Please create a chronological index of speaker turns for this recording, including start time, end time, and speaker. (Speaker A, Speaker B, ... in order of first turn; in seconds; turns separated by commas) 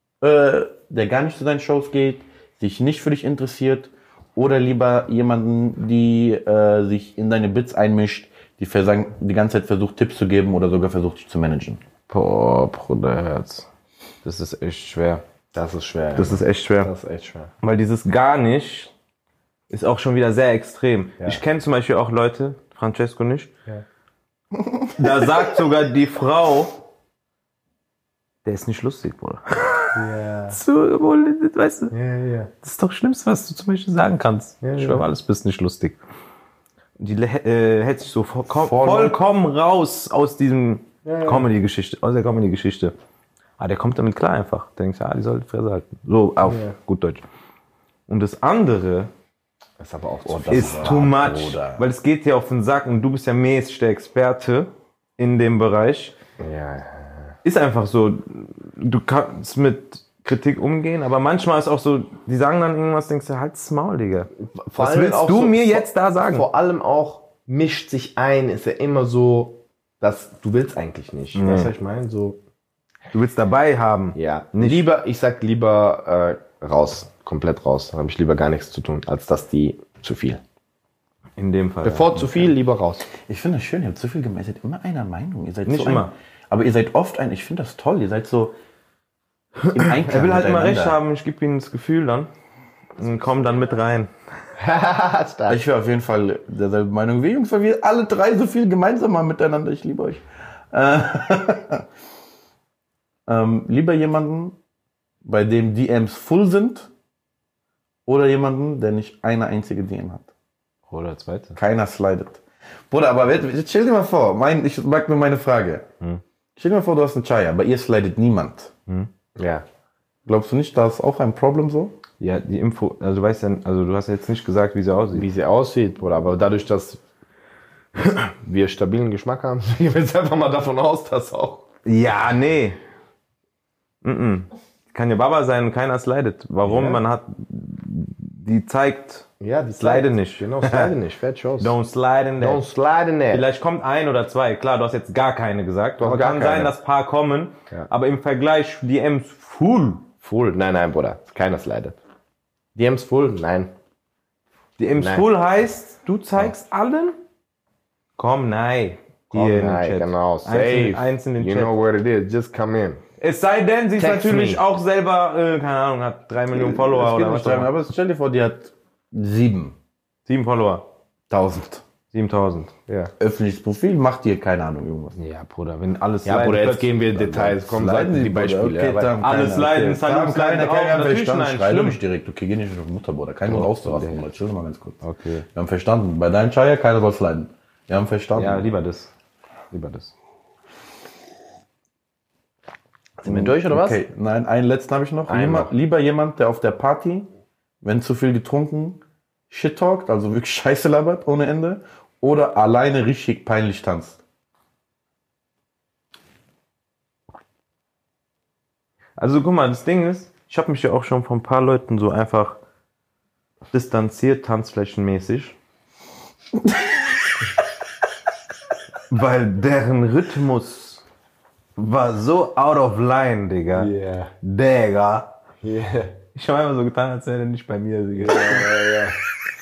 Speaker A: 0.2-11.8, Speaker B: 12.1-13.7, Speaker B: 14.2-15.2, Speaker C: 15.5-17.5, Speaker B: 16.2-16.9, Speaker B: 17.6-18.9, Speaker B: 19.7-23.5, Speaker A: 24.6-24.9, Speaker B: 25.0-26.7, Speaker B: 28.4-30.0, Speaker C: 29.9-30.6, Speaker B: 30.5-31.9, Speaker C: 31.9-32.5, Speaker B: 32.6-36.0, Speaker C: 34.6-35.0, Speaker B: 37.0-42.9, Speaker A: 38.5-39.2, Speaker C: 41.0-41.5, Speaker B: 43.6-47.2, Speaker C: 46.4-46.8, Speaker B: 48.1-49.1, Speaker C: 49.8-51.0, Speaker A: 50.3-51.9, Speaker B: 50.5-56.1, Speaker C: 56.4-57.4, Speaker B: 57.4-66.5, Speaker C: 64.5-72.4, Speaker B: 71.3-71.7, Speaker B: 73.1-74.9, Speaker C: 74.2-80.4, Speaker B: 81.4-82.5, Speaker C: 81.8-83.1, Speaker A: 83.3-88.6, Speaker B: 85.7-86.1, Speaker B: 89.7-92.3, Speaker A: 89.7-91.0, Speaker B: 93.0-94.1, Speaker C: 94.6-95.6, Speaker A: 95.5-101.8, Speaker A: 103.3-104.6, Speaker A: 105.2-106.9, Speaker A: 108.1-110.3, Speaker B: 110.9-111.6, Speaker A: 111.6-115.9, Speaker A: 116.6-118.7, Speaker C: 119.4-119.7, Speaker A: 120.3-122.0, Speaker B: 122.2-125.3, Speaker C: 125.1-127.0, Speaker C: 128.0-131.7, Speaker B: 131.9-132.8, Speaker B: 134.0-139.3, Speaker C: 136.6-137.0, Speaker C: 139.4-141.7, Speaker B: 139.8-140.9, Speaker B: 141.6-142.6, Speaker C: 142.4-143.4, Speaker B: 143.3-150.1, Speaker C: 146.0-146.8, Speaker C: 150.2-152.0, Speaker C: 152.8-153.7, Speaker B: 154.8-157.2, Speaker C: 155.0-155.2, Speaker B: 158.2-161.7, Speaker C: 159.3-163.0, Speaker B: 163.2-167.7, Speaker C: 164.0-164.6, Speaker A: 166.5-169.8, Speaker B: 170.3-170.8, Speaker A: 171.3-171.8, Speaker B: 172.1-172.7, Speaker A: 173.2-175.2, Speaker B: 175.2-177.6, Speaker C: 176.2-179.2, Speaker A: 177.6-185.0, Speaker B: 179.2-182.0, Speaker B: 183.5-184.2, Speaker B: 185.0-185.4, Speaker A: 185.5-188.7, Speaker B: 188.3-189.1, Speaker B: 189.7-190.1, Speaker C: 193.2-194.0, Speaker A: 193.3-197.3, Speaker C: 195.3-195.7, Speaker A: 197.8-204.2, Speaker B: 209.2-212.6, Speaker B: 213.7-215.6, Speaker B: 219.1-221.0, Speaker B: 221.8-225.3, Speaker C: 223.7-224.3, Speaker C: 225.6-226.2, Speaker B: 226.3-228.9, Speaker C: 228.2-229.2